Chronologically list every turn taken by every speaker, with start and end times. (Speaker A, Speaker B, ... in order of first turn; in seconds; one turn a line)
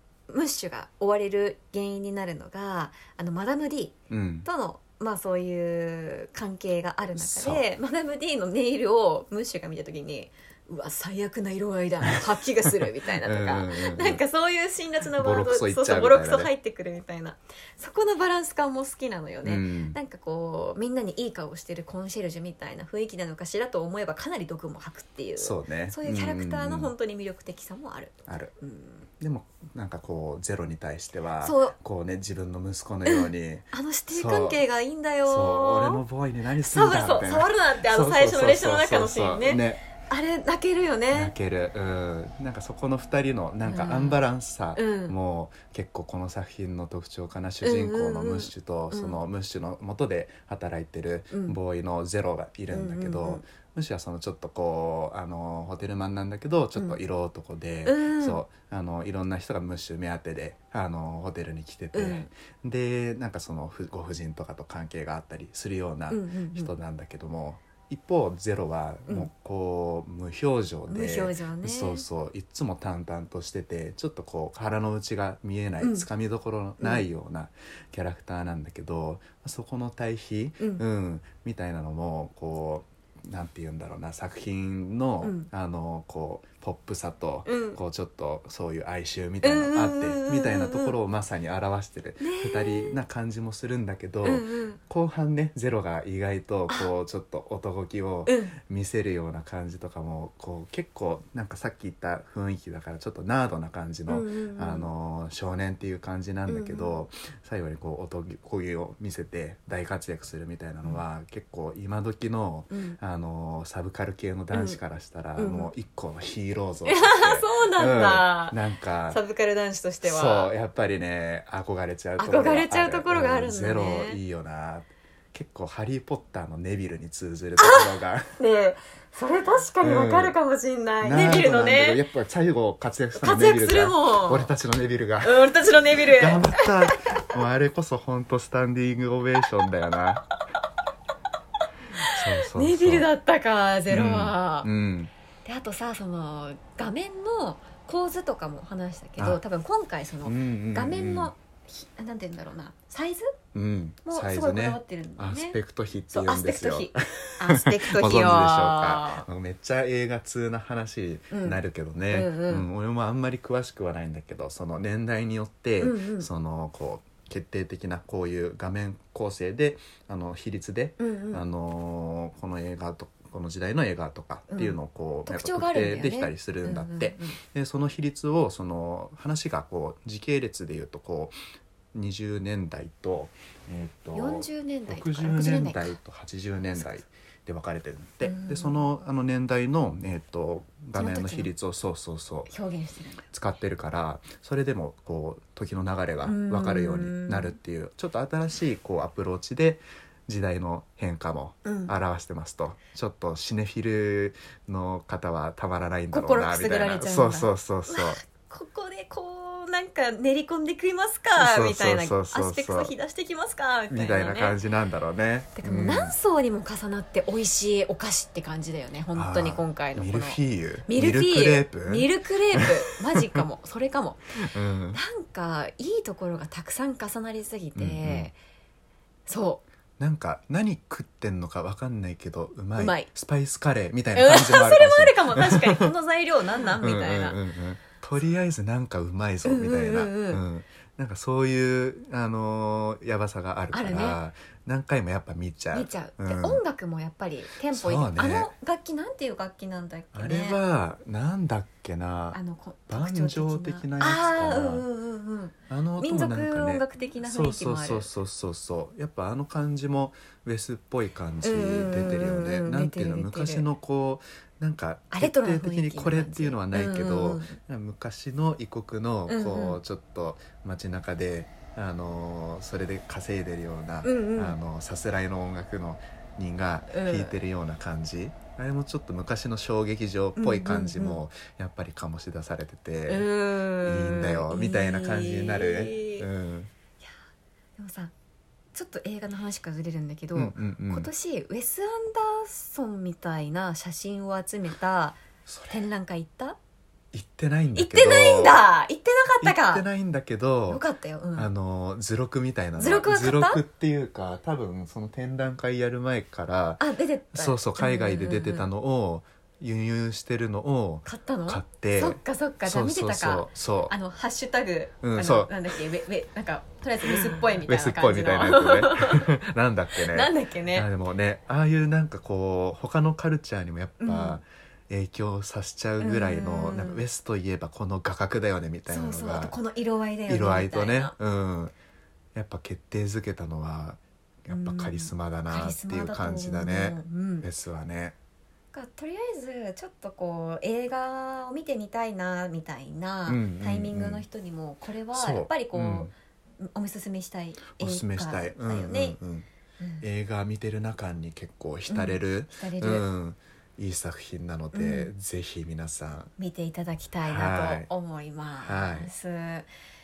Speaker A: 0.3-29.1
Speaker B: 4.1-4.5
Speaker B: 7.1-7.7
Speaker B: 13.2-14.2
Speaker B: 15.2-16.5
Speaker B: 19.4-20.0
Speaker B: 25.4-26.9
Speaker B: 28.3-28.5
Speaker B: 29.2-34.6
Speaker A: 31.4-31.8
Speaker A: 33.1-36.0
Speaker B: 35.2-39.8
Speaker A: 36.6-41.3
Speaker B: 41.1-119.2
Speaker A: 43.6-44.2
Speaker A: 44.8-45.2
Speaker A: 47.6-49.2
Speaker A: 51.3-51.6
Speaker A: 52.7-53.4
Speaker A: 57.9-58.4
Speaker A: 61.9-62.3
Speaker A: 66.1-66.7
Speaker A: 70.9-72.1
Speaker A: 75.8-76.1
Speaker A: 76.8-77.1
Speaker A: 85.2-85.5
Speaker A: 87.5-87.8
Speaker A: 89.4-91.0
Speaker A: 92.2-93.0
Speaker A: 94.2-94.8
Speaker A: 98.2-98.5
Speaker A: 104.1-104.9
Speaker A: 106.5-107.0
Speaker A: 112.7-113.0
Speaker A: 114.5-114.8
Speaker A: 115.4-115.7
Speaker A: 116.9-120.5
Speaker B: 120.0-128.3
Speaker A: 122.2-124.2
Speaker A: 127.6-132.0
Speaker B: 129.8-130.4
Speaker B: 131.0-140.2
Speaker A: 133.1-134.5
Speaker A: 135.2-137.2
Speaker B: 142.1-143.1
Speaker A: 142.1-144.7
Speaker B: 143.9-145.1
Speaker A: 145.4-153.4
Speaker B: 150.2-151.3
Speaker B: 153.5-181.3
Speaker A: 154.1-155.6
Speaker A: 156.1-159.2
Speaker A: 161.3-162.7
Speaker A: 165.8-166.3
Speaker A: 171.0-171.4
Speaker A: 174.5-177.4
Speaker B: 181.9-192.5
Speaker A: 184.1-186.0
Speaker A: 186.8-187.0
Speaker A: 188.2-188.8
Speaker A: 190.9-191.5
Speaker A: 192.5-193.2
Speaker B: 193.3-208.2
Speaker A: 196.2-197.6
Speaker A: 201.6-201.9
Speaker A: 206.1-214.6
Speaker B: 211.4-212.9
Speaker B: 213.9-216.2
Speaker A: 215.6-224.3
Speaker B: 219.1-222.7
Speaker B: 224.4-225.0
Speaker A: 224.9-228.4
Speaker B: 227.8-228.3
Speaker A: 229.3-229.6
Speaker B: 230.0-235.9
Speaker A: 232.8-233.1
Speaker A: 234.1-237.4
Speaker B: 236.8-246.6
Speaker A: 239.4-240.4
Speaker A: 243.7-244.2
Speaker A: 245.7-250.6
Speaker B: 247.7-248.5
Speaker B: 250.1-254.8
Speaker A: 252.3-258.1
Speaker B: 255.7-283.3
Speaker A: 261.4-263.7
Speaker A: 265.1-267.6
Speaker A: 269.3-269.8
Speaker A: 274.0-274.6
Speaker A: 276.9-277.4
Speaker A: 280.4-281.2
Speaker A: 283.1-286.3
Speaker B: 283.8-286.7
Speaker A: 287.8-288.1
Speaker A: 288.7-296.6
Speaker B: 290.3-291.1
Speaker B: 295.4-295.8
Speaker B: 297.1-298.6
Speaker A: 297.8-299.9
Speaker B: 299.4-300.8
Speaker A: 300.7-301.5
Speaker B: 301.3-314.0
Speaker A: 302.8-303.6
Speaker A: 306.8-308.7
Speaker A: 311.1-319.3
Speaker B: 315.0-315.6
Speaker B: 317.0-329.6
Speaker A: 320.0-320.9
Speaker A: 324.0-324.4
Speaker A: 326.0-327.0
Speaker A: 328.9-331.1
Speaker B: 330.3-331.7
Speaker B: 332.3-338.1
Speaker A: 334.5-337.5
Speaker A: 338.7-349.2
Speaker B: 343.3-344.3
Speaker B: 345.1-346.1
Speaker B: 347.8-349.5
Speaker A: 349.8-350.1
Speaker B: 350.0-356.3
Speaker A: 351.9-353.1
Speaker A: 354.7-355.1
Speaker A: 356.4-359.7
Speaker B: 357.2-357.9
Speaker B: 358.6-359.1